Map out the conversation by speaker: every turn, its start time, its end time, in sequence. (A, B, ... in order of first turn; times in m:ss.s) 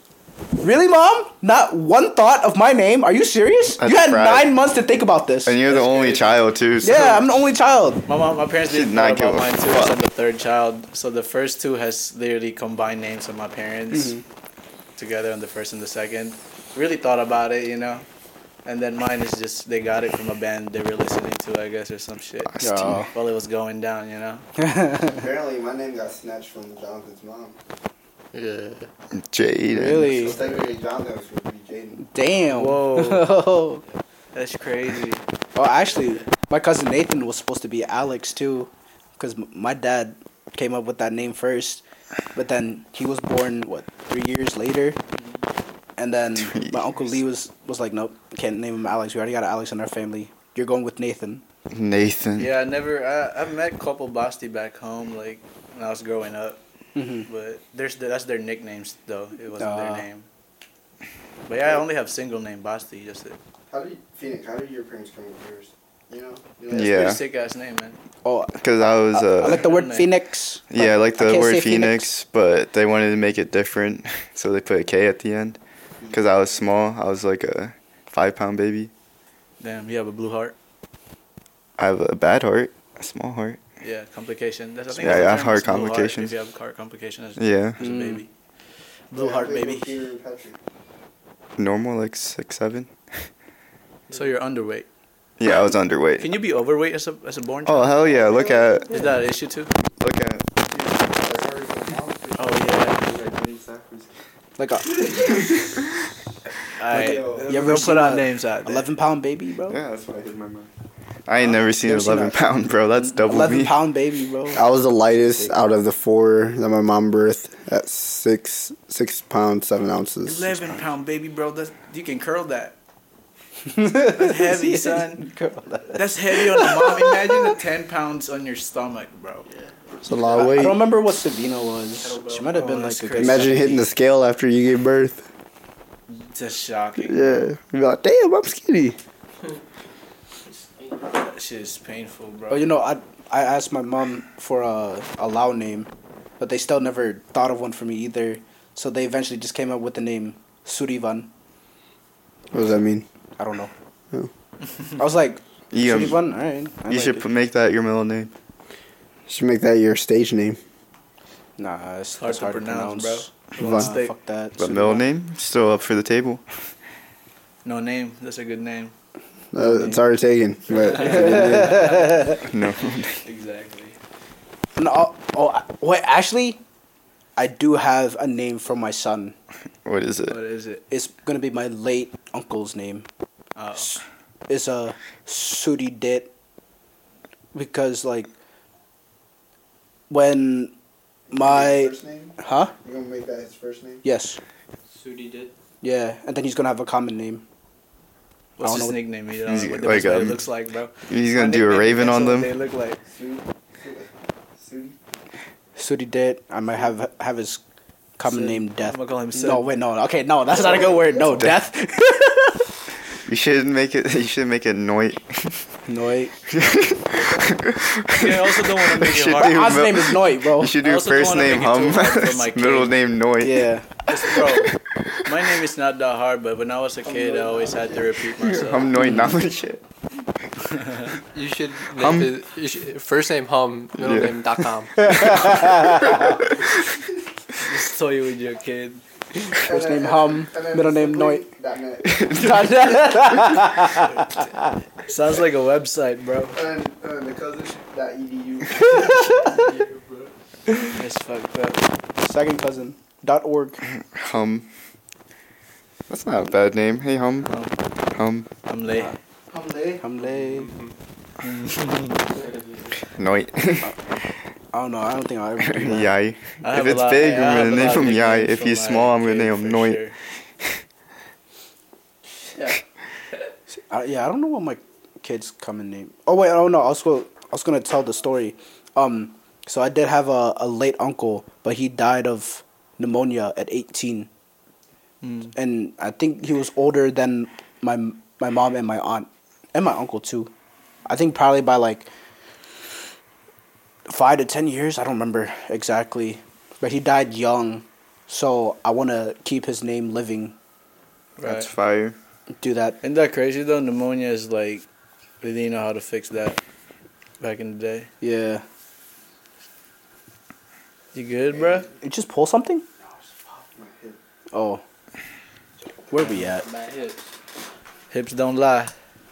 0:00.6-0:05.6 A
0:03.8-0:04.5 B
0:05.4-0:07.3 B
0:05.7-0:06.4 C
0:06.8-0:08.1 A
0:08.1-0:14.2 C
0:08.7-0:10.0 B
0:13.9-0:14.2 A
0:15.0-0:18.1 C
0:18.6-0:22.6 C
0:22.5-0:23.1 B
0:22.6-0:23.1 A
0:23.1-0:24.4 C
0:24.6-0:25.3 A
0:25.1-0:27.6 D
0:28.3-0:28.9 E
0:29.2-0:30.1 B
0:29.7-0:30.4 A
0:30.2-0:32.1 D
0:32.0-0:33.8 A
0:32.5-0:33.4 C
0:34.3-0:35.2 C
0:35.6-0:41.8 A
0:42.3-0:45.0 A
0:46.0-0:51.4 A
0:46.4-0:46.9 B
0:51.7-0:52.5 B
0:52.4-0:56.6 C
0:57.0-0:57.3 A
0:57.2-1:00.2 C
0:59.6-1:00.1 A
1:01.5-1:03.4 C
1:03.7-1:07.0 D
1:06.7-1:07.2 B
1:06.7-1:08.0 C
1:08.2-1:08.6 A
1:08.6-1:09.7 B
1:09.1-1:12.1 A
1:09.4-1:10.1 C
1:10.7-1:15.6 B
1:16.1-1:18.9 B
1:19.6-1:20.6 C
1:21.8-1:23.6 B
1:23.8-1:28.3 C
1:24.9-1:26.3 B
1:27.4-1:27.8 B
1:27.8-1:28.2 A
1:29.1-1:30.0 C
1:29.2-1:30.6 D
1:31.6-1:32.9 B
1:34.1-1:34.9 C
1:35.4-1:36.3 B
1:36.2-1:39.7 C
1:37.7-1:39.1 B
1:40.0-1:40.9 B
1:41.0-1:42.8 D
1:42.4-1:43.0 C
1:43.0-1:44.1 B
1:44.6-1:45.5 A
1:46.8-1:48.9 C
1:46.9-1:49.8 A
1:47.0-1:47.4 D
1:49.7-1:50.7 B
1:51.3-1:53.8 B
1:51.8-1:52.4 A
1:53.2-1:55.6 A
1:54.5-2:00.8 D
2:00.2-2:02.8 C
2:03.7-2:07.6 A
2:04.1-2:05.3 C
2:05.9-2:09.5 C
2:09.5-2:09.8 E
2:10.0-2:10.7 C
2:10.0-2:10.8 D
2:10.4-2:13.8 A
2:12.0-2:12.3 E
2:12.2-2:13.9 C
2:13.2-2:15.3 D
2:16.1-2:17.5 C
2:17.0-2:19.0 D
2:20.5-2:21.0 E
2:21.2-2:22.7 C
2:22.5-2:31.3 A
2:32.5-2:33.0 D
2:33.4-2:33.7 A
2:35.0-2:37.3 A
2:35.7-2:36.2 B
2:36.9-2:38.3 B
2:39.3-2:40.6 D
2:41.6-2:45.1 A
2:42.2-2:44.1 C
2:43.6-2:43.9 D
2:44.6-2:46.4 B
2:47.6-2:48.9 C
2:49.5-2:52.0 D
2:49.6-2:50.0 C
2:50.8-2:52.3 C
2:51.0-2:52.4 A
2:52.3-2:53.2 B
2:53.2-2:54.0 C
2:54.8-2:56.6 A
2:57.4-2:59.3 A
2:59.8-3:00.4 B
3:00.3-3:00.8 C
3:00.9-3:03.1 A
3:03.6-3:04.0 C
3:03.8-3:06.3 A
3:07.5-3:08.3 A
3:10.1-3:10.7 A
3:11.3-3:12.7 A
3:11.3-3:14.0 D
3:14.0-3:14.4 A
3:14.9-3:15.5 E
3:15.8-3:17.4 A
3:18.6-3:23.0 C
3:18.6-3:19.0 A
3:19.4-3:20.4 B
3:21.1-3:22.5 B
3:23.1-3:24.9 D
3:25.8-3:27.6 A
3:28.2-3:32.7 A
3:28.3-3:29.8 C
3:30.6-3:31.4 C
3:33.3-3:35.7 B
3:35.9-3:36.4 A
3:36.5-3:43.7 B
3:38.1-3:39.7 C
3:39.4-3:40.8 A
3:40.8-3:43.0 C
3:43.4-3:43.9 A
3:44.1-3:49.0 C
3:44.3-3:44.8 B
3:48.4-3:49.8 B
3:49.0-3:49.3 A
3:50.7-3:51.1 C
3:51.3-3:55.5 E
3:52.0-3:52.3 B
3:54.0-3:54.4 B
3:55.0-3:56.4 A
3:55.3-3:56.4 B
3:57.6-3:59.0 C
3:59.5-4:01.5 A
3:59.6-4:02.6 D
4:02.0-4:03.1 B
4:02.3-4:04.2 A
4:05.0-4:06.6 C
4:06.5-4:09.5 D
4:10.8-4:11.8 C
4:12.2-4:13.8 A
4:14.0-4:14.7 B
4:16.1-4:17.5 B
4:17.5-4:17.7 C
4:18.1-4:18.5 B
4:18.7-4:19.2 C
4:20.0-4:20.8 A
4:20.6-4:20.9 E
4:21.4-4:22.3 C
4:23.2-4:24.0 B
4:24.7-4:26.1 A
4:25.7-4:30.0 B
4:26.6-4:30.2 C
4:33.9-4:44.3 A
4:45.2-4:45.5 C
4:45.6-4:50.5 A
4:51.0-4:52.1 A
4:54.1-5:00.6 A
5:01.4-5:01.7 C
5:01.4-5:02.2 B
5:02.6-5:03.0 A
5:03.0-5:04.9 C
5:05.4-5:06.6 C
5:07.4-5:08.1 C
5:08.2-5:08.6 A
5:11.1-5:11.9 C
5:12.0-5:12.8 A
5:13.5-5:14.2 D
5:14.5-5:14.8 A
5:16.1-5:16.7 A
5:16.2-5:17.2 C
5:18.1-5:18.9 C